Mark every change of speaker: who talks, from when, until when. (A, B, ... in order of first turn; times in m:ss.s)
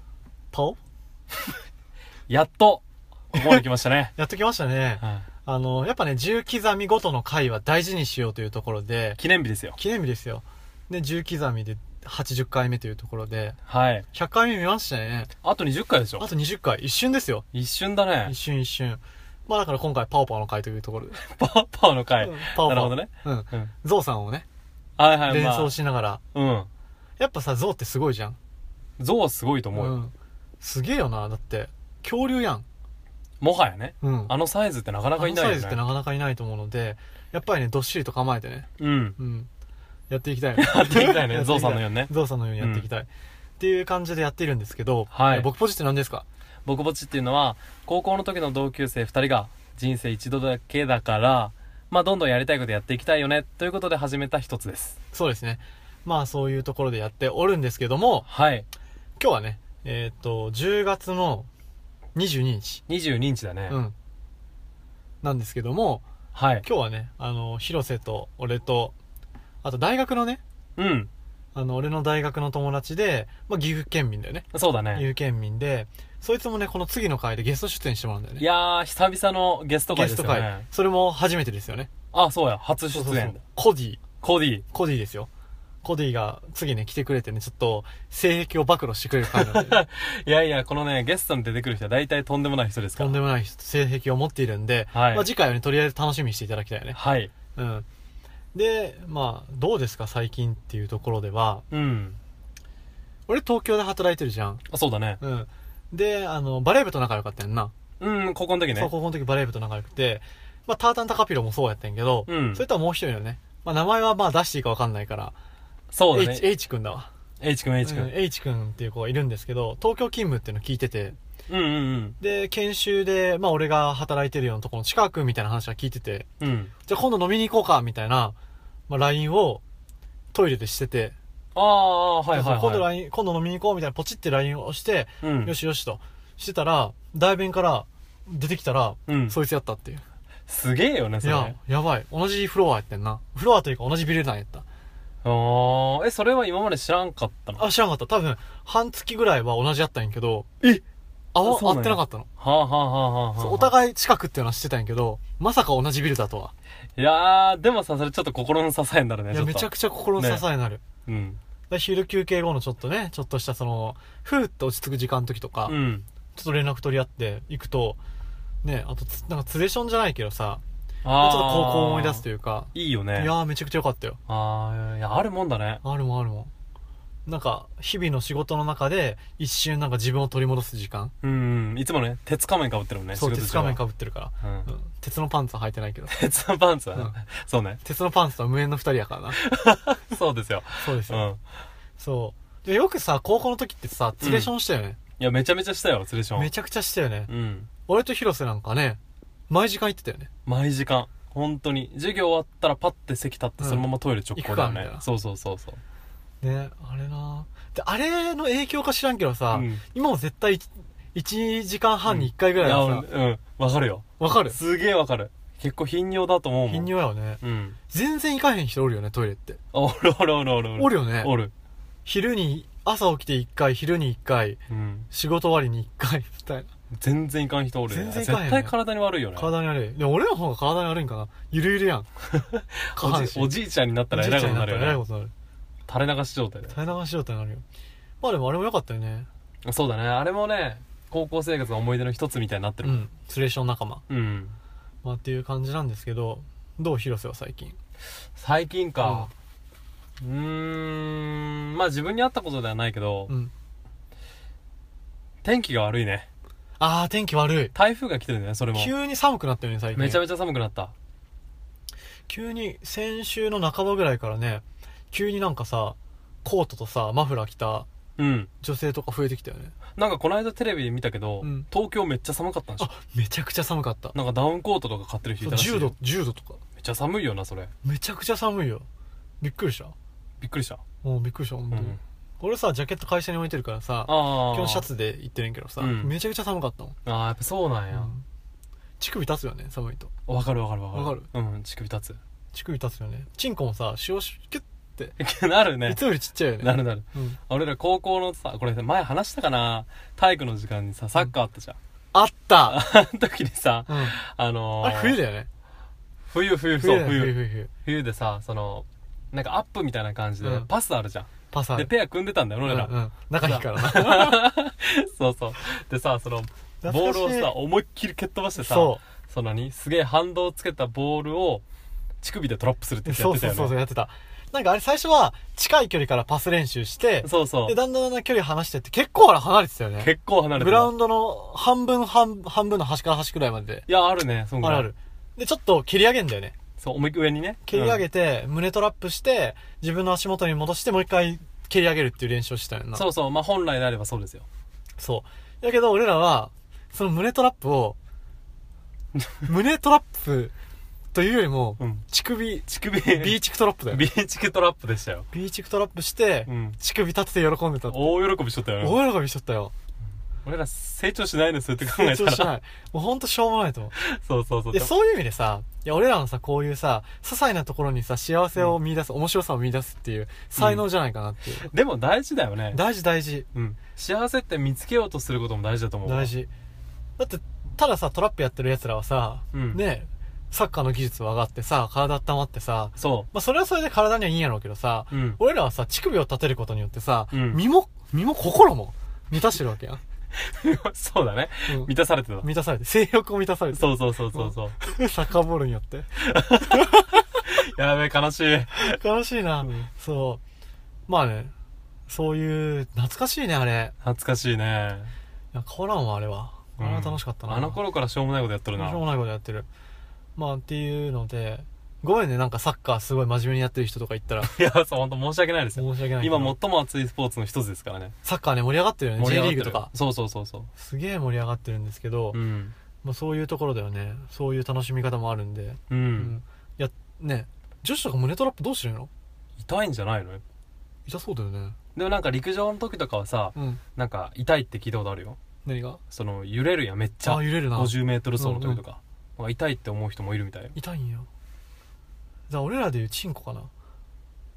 0:00.5-0:00.8 A
0:02.3-0:04.1 B
0:03.3-0:03.6 A
0:04.2-0:09.2 A
0:05.0-0:05.2 B
0:09.2-0:09.8 B
0:09.8-0:13.6 A
0:13.7-0:14.0 B
0:14.1-0:15.3 A
0:15.4-0:16.3 B
0:16.2-0:17.4 A
0:17.5-0:18.3 B
0:18.2-0:21.2 A
0:21.2-0:23.7 B
0:22.2-0:24.4 A
0:25.0-0:25.8 B
0:25.3-0:26.2 A
0:26.3-0:26.7 B
0:27.2-0:28.4 A
0:29.0-0:30.0 B
0:29.7-0:32.6 A
0:33.4-0:35.8 B
0:34.0-0:34.3 A
0:35.2-0:39.5 A
0:38.8-0:39.2 B
0:40.1-0:46.2 A
0:40.6-0:42.9 B
0:45.1-0:45.5 B
0:46.6-0:55.0 B
0:55.1-0:58.3 A
0:58.2-0:58.7 B
0:59.2-1:01.5 A
1:02.1-1:02.8 A
1:02.9-1:03.8 B
1:03.7-1:03.9 A
1:05.2-1:06.0 A
1:06.3-1:06.6 B
1:06.6-1:09.0 A
1:09.6-1:10.4 A
1:10.8-1:11.1 B
1:11.5-1:18.4 A
1:14.5-1:15.1 B
1:18.4-1:20.6 B
1:19.9-1:21.9 A
1:22.1-1:23.4 B
1:22.9-1:24.0 A
1:24.2-1:24.6 B
1:24.7-1:25.3 A
1:25.8-1:29.8 A
1:29.3-1:33.2 B
1:33.0-1:37.0 A
1:34.9-1:35.3 B
1:36.9-1:37.3 B
1:37.5-1:37.8 A
1:38.5-1:41.6 A
1:41.7-1:42.2 B
1:43.3-1:44.6 A
1:44.7-1:45.2 B
1:45.2-1:47.7 A
1:48.0-1:48.9 B
1:48.7-1:55.3 A
1:52.3-1:52.6 B
1:55.9-1:56.5 B
1:56.1-1:57.1 A
1:57.4-1:58.1 B
1:57.8-2:01.2 A
2:01.5-2:02.2 B
2:02.2-2:06.3 A
2:06.4-2:06.7 B
2:06.8-2:08.4 A
2:08.9-2:09.6 A
2:10.3-2:11.2 A
2:11.5-2:12.9 B
2:12.3-2:20.0 A
2:15.2-2:15.5 B
2:19.1-2:19.4 B
2:20.5-2:21.6 B
2:21.2-2:24.6 A
2:25.2-2:27.6 B
2:27.6-2:30.5 A
2:31.3-2:32.3 A
2:31.4-2:33.7 B
2:33.4-2:36.5 A
2:37.0-2:40.4 B
2:39.3-2:40.8 A
2:41.0-2:41.4 B
2:41.7-2:45.8 A
2:45.6-2:46.0 B
2:46.3-2:48.0 A
2:48.6-2:50.6 A
2:51.0-2:53.3 B
2:51.2-2:54.2 A
2:54.3-2:55.8 B
2:55.8-2:56.5 A
2:57.2-3:01.1 A
3:01.2-3:03.8 B
3:03.1-3:06.1 A
3:04.4-3:04.7 B
3:06.1-3:07.8 B
3:07.8-3:09.4 A
3:09.3-3:11.4 B
3:10.8-3:11.3 A
3:12.0-3:15.0 A
3:14.2-3:14.5 B
3:15.2-3:16.5 B
3:16.4-3:17.3 A
3:17.3-3:17.7 B
3:17.8-3:19.0 A
3:19.5-3:20.3 A
3:20.4-3:25.8 B
3:23.6-3:25.0 A
3:26.4-3:33.0 A
3:29.5-3:29.8 B
3:32.1-3:36.9 B
3:34.2-3:34.6 A
3:36.7-3:39.6 A
3:37.4-3:37.8 B
3:39.7-3:41.5 B
3:40.8-3:41.3 A
3:42.0-3:44.6 A
3:44.7-3:45.1 B
3:45.1-3:46.7 A
3:46.9-3:49.5 B
3:47.9-3:48.7 A
3:49.3-3:52.1 A
3:52.3-3:55.0 B
3:53.0-3:53.6 A
3:54.1-3:55.3 A
3:55.9-3:56.7 B
3:56.7-3:57.6 A
3:58.2-3:59.3 A
3:59.6-4:03.0 B
4:02.8-4:04.0 A
4:04.1-4:04.6 B
4:05.0-4:07.8 A
4:08.4-4:09.3 B
4:09.0-4:09.3 A
4:10.2-4:13.3 B
4:15.4-4:16.3 B
4:16.8-4:17.7 A
4:17.7-4:18.9 B
4:18.7-4:20.2 A
4:19.9-4:20.9 B
4:22.3-4:27.9 A
4:28.2-4:28.5 B
4:28.6-4:29.7 A
4:30.0-4:32.9 B
4:31.4-4:31.7 A
4:32.8-4:34.2 A
4:34.1-4:36.0 B
4:35.4-4:36.6 A
4:36.8-4:37.7 B
4:37.8-4:38.8 A
4:39.4-4:39.9 A
4:40.4-4:40.8 B
4:41.0-4:47.0 A
4:41.7-4:42.0 B
4:44.0-4:44.9 B
4:45.8-4:46.1 B
4:47.0-4:48.1 B
4:47.9-4:48.2 A
4:49.0-4:50.1 A
4:50.3-4:52.2 B
4:50.9-4:51.3 A
4:52.5-4:55.2 A
4:55.2-4:56.0 B
4:55.8-4:57.4 A
4:56.6-5:01.8 B
5:02.1-5:02.8 A
5:02.7-5:05.2 B
5:03.9-5:04.1 A
5:04.8-5:05.5 A
5:06.3-5:21.6 B
5:06.8-5:07.7 A
5:10.4-5:10.7 A
5:11.5-5:11.9 A
5:12.6-5:14.4 A
5:16.8-5:17.5 A
5:18.6-5:19.0 A
5:22.2-5:23.8 B
5:23.0-5:33.9 A
5:27.2-5:27.8 B
5:30.0-5:30.9 B
5:33.9-5:34.9 B
5:34.6-5:36.6 A
5:36.8-5:38.0 B
5:37.6-5:43.0 A
5:42.9-5:44.4 B
5:45.0-5:48.0 A
5:49.4-5:50.5 A
5:51.1-5:54.0 A
5:52.7-5:53.4 B
5:53.9-5:55.3 B
5:55.3-5:58.2 A
5:56.5-5:56.8 B
5:57.9-5:59.0 B
5:58.8-5:59.7 A
6:00.4-6:02.5 B
6:01.8-6:03.9 A
6:03.9-6:04.9 B
6:04.7-6:11.7 A
6:10.6-6:10.8 B
6:11.6-6:12.8 B
6:12.7-6:13.5 A
6:13.5-6:16.3 B
6:16.0-6:16.5 A
6:17.2-6:30.0 A
6:19.5-6:19.8 B
6:23.0-6:23.3 B
6:25.1-6:25.4 B
6:27.3-6:27.6 B
6:30.4-6:32.4 B
6:31.6-6:36.1 A
6:33.7-6:34.8 B
6:36.2-6:39.0 B
6:36.7-6:37.0 A
6:38.7-6:40.4 A
6:41.1-6:41.5 A
6:42.1-6:43.9 A
6:44.0-6:45.1 B
6:45.5-6:47.8 A
6:46.8-6:49.0 B
6:48.8-6:49.7 A
6:50.4-6:54.5 A
6:54.4-6:58.1 B
6:55.8-6:56.6 A
6:58.2-6:59.9 A
6:59.2-7:00.7 B
7:00.8-7:02.4 A
7:02.3-7:02.7 B
7:03.0-7:09.1 A
7:05.9-7:06.4 B
7:09.6-7:10.4 B
7:11.0-7:11.8 A
7:11.9-7:15.4 B
7:13.6-7:13.8 A
7:15.6-7:16.0 A
7:16.1-7:20.8 B
7:17.2-7:18.8 A
7:20.7-7:21.3 A
7:22.5-7:23.7 A